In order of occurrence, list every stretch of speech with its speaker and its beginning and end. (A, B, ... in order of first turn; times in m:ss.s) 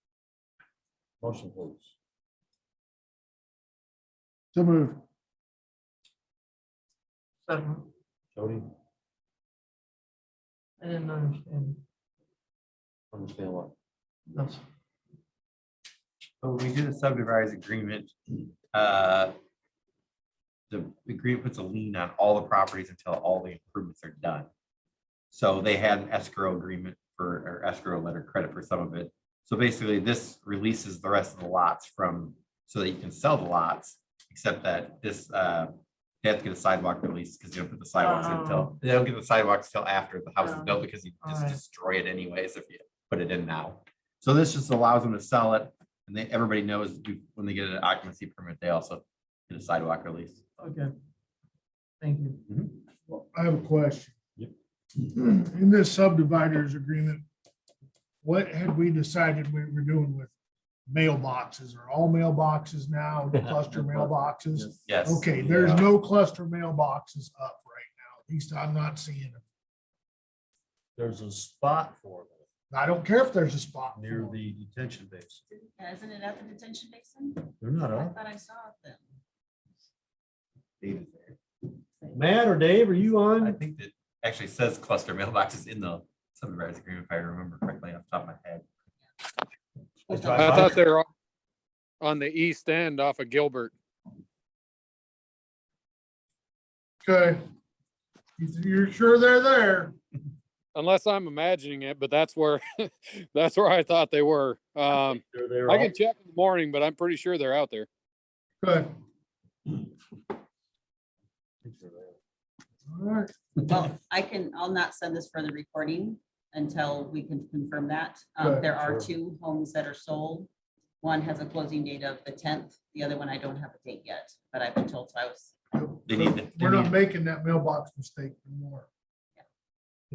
0:01.2-0:01.9 A
0:04.5-0:05.0 B
0:07.5-0:07.9 C
0:08.3-0:08.7 A
0:10.8-0:11.8 C
0:13.1-0:13.7 A
0:14.3-0:14.6 C
0:16.4-0:19.3 D
0:20.7-0:24.5 D
0:25.3-0:50.4 D
0:38.0-0:38.7 C
0:40.4-0:41.6 C
0:50.6-0:50.9 C
0:52.0-0:52.4 C
0:53.1-0:54.2 B
0:55.0-0:57.2 B
0:58.2-1:00.3 B
1:00.9-1:09.4 B
1:04.8-1:05.9 D
1:11.0-1:12.4 A
1:12.7-1:14.4 B
1:13.9-1:15.4 A
1:15.5-1:19.0 E
1:17.6-1:18.2 A
1:20.8-1:21.4 D
1:22.1-1:23.6 A
1:23.4-1:28.6 D
1:30.0-1:30.8 A
1:30.1-1:30.4 E
1:30.3-1:31.1 F
1:32.0-1:33.7 F
1:37.0-1:37.4 B
1:38.4-1:39.9 B
1:40.7-1:47.9 F
1:45.2-1:45.9 A
1:48.6-1:48.9 B
1:51.6-1:52.2 A
1:52.9-1:53.3 B
1:53.6-2:00.5 E
1:58.4-1:58.7 B
1:58.8-1:59.1 A
2:01.0-2:05.5 E
2:05.7-2:08.9 B
2:06.1-2:07.0 D